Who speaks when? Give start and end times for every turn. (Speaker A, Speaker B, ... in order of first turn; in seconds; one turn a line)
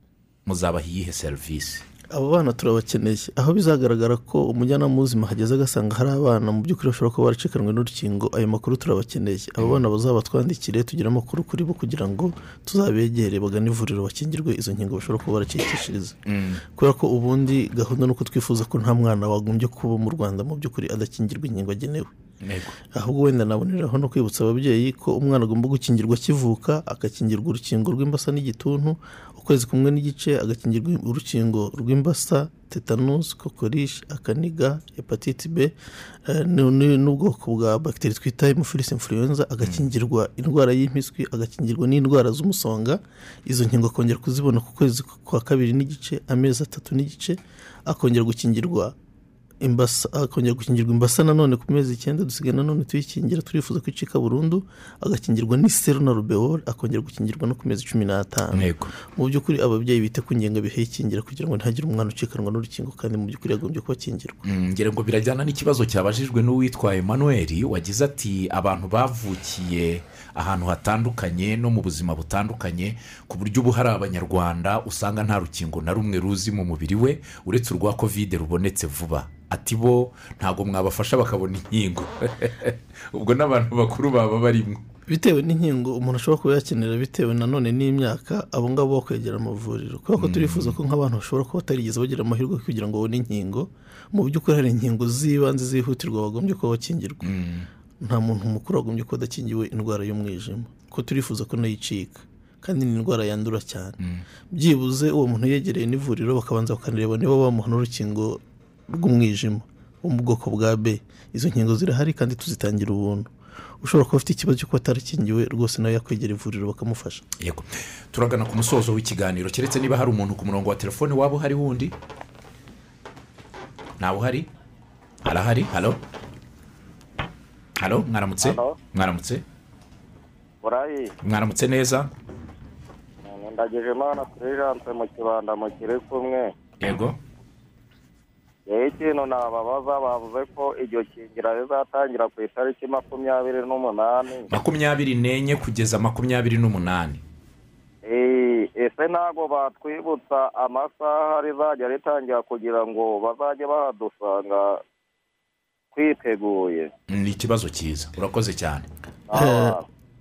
Speaker A: 0.5-1.8
Speaker B: 2.1-16.2
Speaker A: 16.2-16.6
Speaker B: 16.7-22.1
Speaker A: 22.4-22.8
Speaker B: 22.9-35.7
Speaker B: 36.3-48.9
Speaker B: 49.6-64.4
Speaker A: 58.5-58.9
Speaker A: 64.4-84.8
Speaker B: 85.1-97.3
Speaker A: 90.2-90.8
Speaker A: 97.2-97.7
Speaker B: 98.0-104.0
Speaker B: 104.5-117.2
Speaker A: 117.4-121.9
Speaker A: 124.0-124.5
Speaker A: 125.2-126.0
Speaker A: 127.8-129.4
Speaker C: 128.4-128.8
Speaker C: 130.6-131.1
Speaker A: 131.2-132.1
Speaker C: 133.2-136.5
Speaker A: 136.8-137.2
Speaker C: 138.7-144.5
Speaker A: 144.5-147.2
Speaker C: 148.0-154.8
Speaker C: 155.9-156.9
Speaker A: 157.1-158.9
Speaker C: 159.3-159.8
Speaker B: 159.3-159.8